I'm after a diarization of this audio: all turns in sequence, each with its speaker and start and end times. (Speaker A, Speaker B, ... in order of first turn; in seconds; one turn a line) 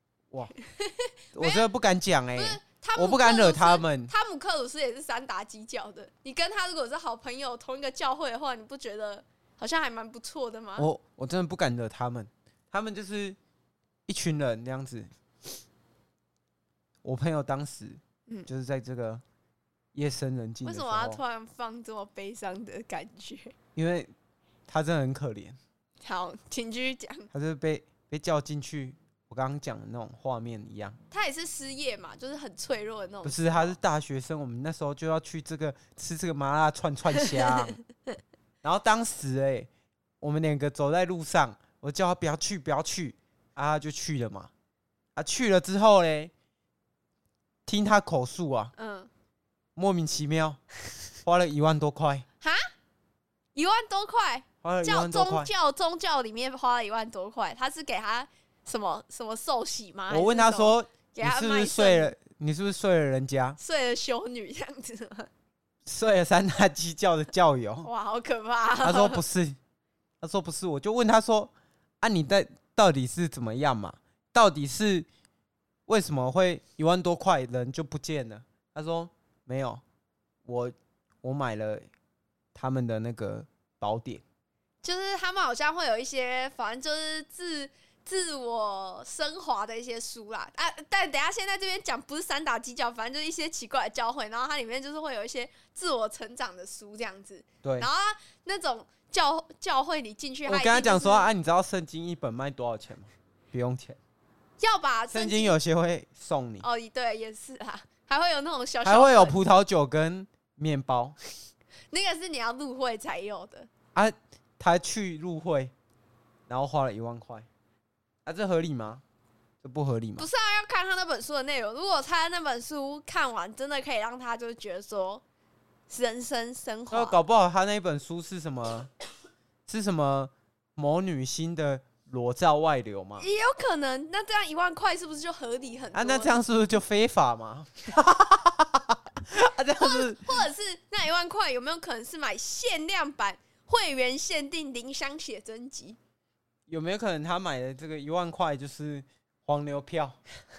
Speaker A: 0.5-1.7
Speaker B: 1.3-4.1
Speaker A: 2.4-10.9
Speaker B: 10.8-13.4
Speaker B: 14.1-15.1
Speaker B: 17.0-19.2
Speaker B: 19.9-21.2
Speaker A: 20.6-23.5
Speaker B: 23.8-24.1
Speaker B: 24.7-25.6
Speaker A: 26.0-27.3
Speaker B: 27.3-31.0
Speaker A: 31.1-33.8
Speaker B: 33.2-37.8
Speaker A: 37.1-37.8
Speaker B: 38.6-39.7
Speaker B: 40.2-44.5
Speaker B: 45.1-46.3
Speaker B: 47.7-48.7
Speaker A: 48.8-49.1
Speaker B: 49.8-50.6
Speaker B: 51.2-52.2
Speaker A: 52.4-52.6
Speaker A: 53.5-62.1
Speaker B: 54.6-55.5
Speaker B: 60.1-63.6
Speaker A: 63.6-65.3
Speaker B: 65.8-67.9
Speaker A: 67.8-69.2
Speaker B: 68.8-69.6
Speaker B: 70.2-75.1
Speaker B: 75.9-79.8
Speaker B: 80.4-81.9
Speaker B: 82.5-84.2
Speaker A: 84.8-101.3
Speaker B: 97.6-97.9
Speaker B: 100.5-104.0
Speaker A: 104.6-105.5
Speaker B: 105.1-106.6
Speaker A: 106.6-109.4
Speaker B: 108.8-111.2
Speaker A: 111.9-113.7
Speaker B: 113.9-115.7
Speaker B: 116.5-117.5
Speaker B: 118.2-119.0
Speaker B: 119.6-120.3
Speaker A: 120.2-125.2
Speaker A: 125.9-127.2
Speaker B: 126.9-128.9
Speaker B: 129.7-133.2
Speaker A: 133.2-136.3
Speaker B: 135.9-140.4
Speaker A: 139.8-146.0
Speaker B: 146.7-150.2